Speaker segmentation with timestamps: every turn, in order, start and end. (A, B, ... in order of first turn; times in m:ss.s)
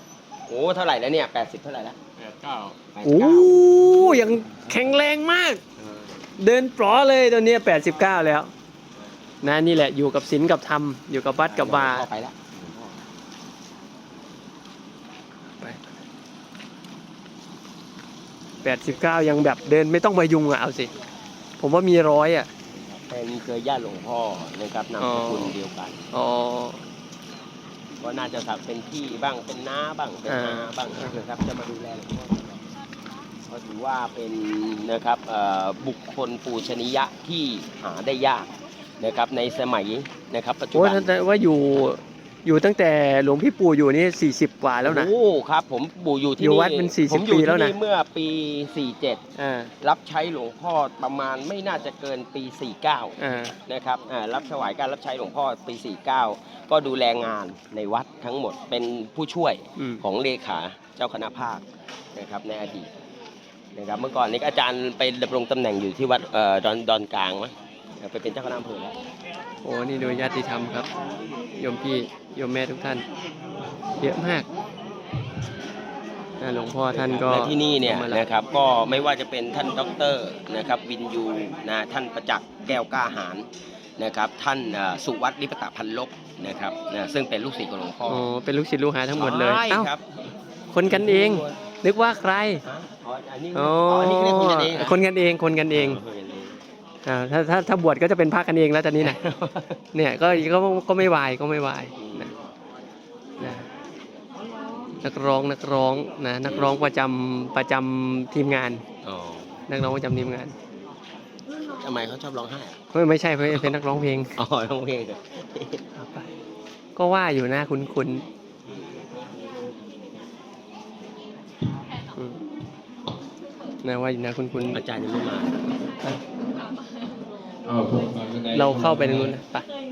0:00.4-0:02.1 A
0:02.2-0:02.8 B
0:02.8-0:04.3 A
0:03.0-0:05.6 C
0:05.8-0:06.2 A
0:06.4-0:08.5 C
0:09.0-0:09.2 A
0:09.4-0:12.0 C
0:11.4-0:13.0 A
0:15.6-0:15.9 C
0:18.6-0:20.9 C
0:21.6-0:22.5 C
0:22.7-0:26.1 A
0:25.0-0:25.5 C
0:26.1-0:26.8 C
0:28.0-0:32.6 A
0:30.3-0:31.2 C
0:33.5-0:41.1 A
0:40.7-0:45.1 C
0:44.8-0:49.2 A
0:46.4-0:47.7 C
0:49.4-0:49.7 C
0:49.8-1:02.9 A
0:53.2-0:53.5 C
0:59.8-1:00.0 C
1:03.7-1:09.0 A
1:09.6-1:10.9 C
1:11.6-1:13.0 C
1:14.0-1:14.5 C
1:16.4-1:18.2 C
1:16.9-1:28.2 A
1:28.1-1:29.9 C
1:29.1-1:31.6 A
1:30.7-1:32.6 C
1:32.6-1:35.0 A
1:33.5-1:36.0 C
1:35.7-1:36.6 A
1:37.0-1:39.2 C
1:39.0-1:39.8 A
1:39.9-1:42.3 C
1:42.0-1:42.3 A
1:43.4-1:43.7 C
1:44.9-1:48.8 C
1:46.4-1:46.9 A
1:49.0-1:49.6 A
1:49.7-1:50.5 C
1:51.6-1:52.8 A
1:52.9-1:54.3 C
1:53.5-1:53.7 A
1:54.4-1:55.8 A
1:56.0-1:56.3 C
1:57.0-1:58.2 C
1:58.6-1:59.3 A
2:02.1-2:02.4 C
2:03.8-2:04.8 C
2:04.7-2:05.6 A
2:07.6-2:09.4 B
2:08.5-2:09.7 C